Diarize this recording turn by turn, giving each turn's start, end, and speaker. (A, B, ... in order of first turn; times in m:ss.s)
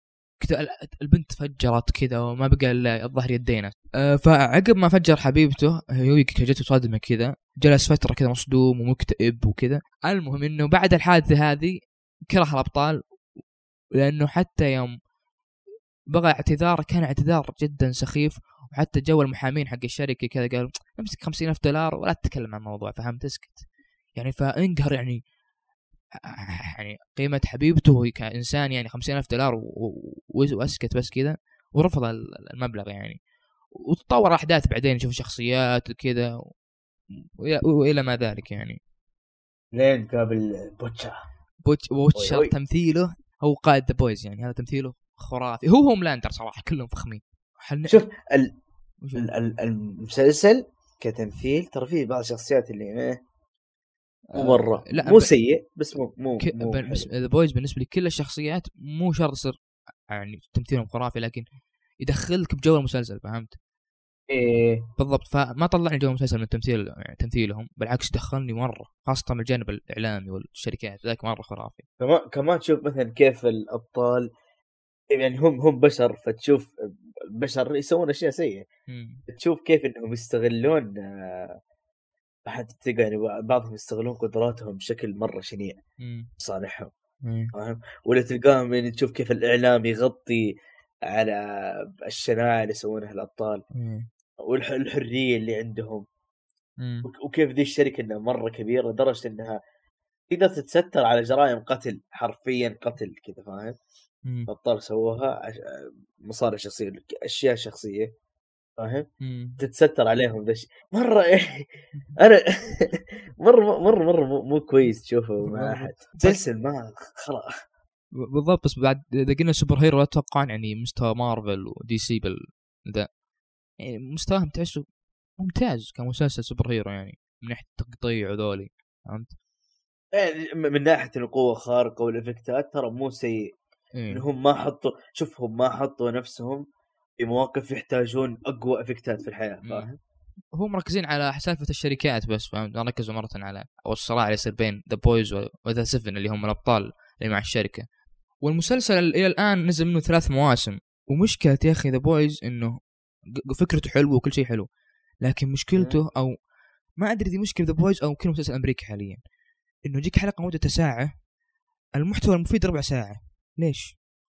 0:00.4-0:13.2 A
0:14.0-0:15.1 A
0:16.1-0:25.3 A
0:26.8-0:33.2 A
0:33.9-0:36.3 A
0:37.4-0:38.8 A
0:39.7-0:41.2 B
0:41.6-0:48.0 A
0:42.1-0:42.5 B
0:47.9-0:48.5 B
0:49.0-0:49.3 A
0:49.1-0:53.2 B
0:54.3-0:55.3 A
0:54.4-0:57.1 B
0:56.4-0:59.6 A
1:00.1-1:01.4 A
1:02.0-1:03.6 A
1:04.3-1:04.8 B
1:05.0-1:11.8 A
1:12.0-1:14.3 B
1:15.1-1:16.7 B
1:17.4-1:18.6 B
1:18.9-1:19.2 A
1:19.3-1:21.6 B
1:22.4-1:25.8 B
1:26.0-1:26.3 A
1:26.4-1:26.9 B
1:27.2-1:27.5 A
1:27.5-1:30.5 B
1:31.1-1:33.6 B
1:33.7-1:34.1 A
1:34.4-1:36.0 B
1:36.8-1:37.1 A
1:37.0-1:39.6 B
1:40.3-1:43.8 B
1:44.5-1:48.1 B
1:48.8-1:49.1 B
1:49.2-1:49.6 A
1:49.6-1:57.5 B
1:55.4-1:56.4 A
1:58.2-2:03.2 A
2:03.8-2:04.8 A
2:05.4-2:09.3 A
2:10.1-2:13.5 B
2:13.9-2:14.2 A
2:14.1-2:16.6 B
2:17.2-2:20.0 B
2:20.5-2:27.8 A
2:28.4-2:32.8 A
2:33.5-2:34.7 A
2:35.2-2:36.3 A
2:37.0-2:39.2 A
2:39.8-2:41.1 A
2:42.0-2:43.9 A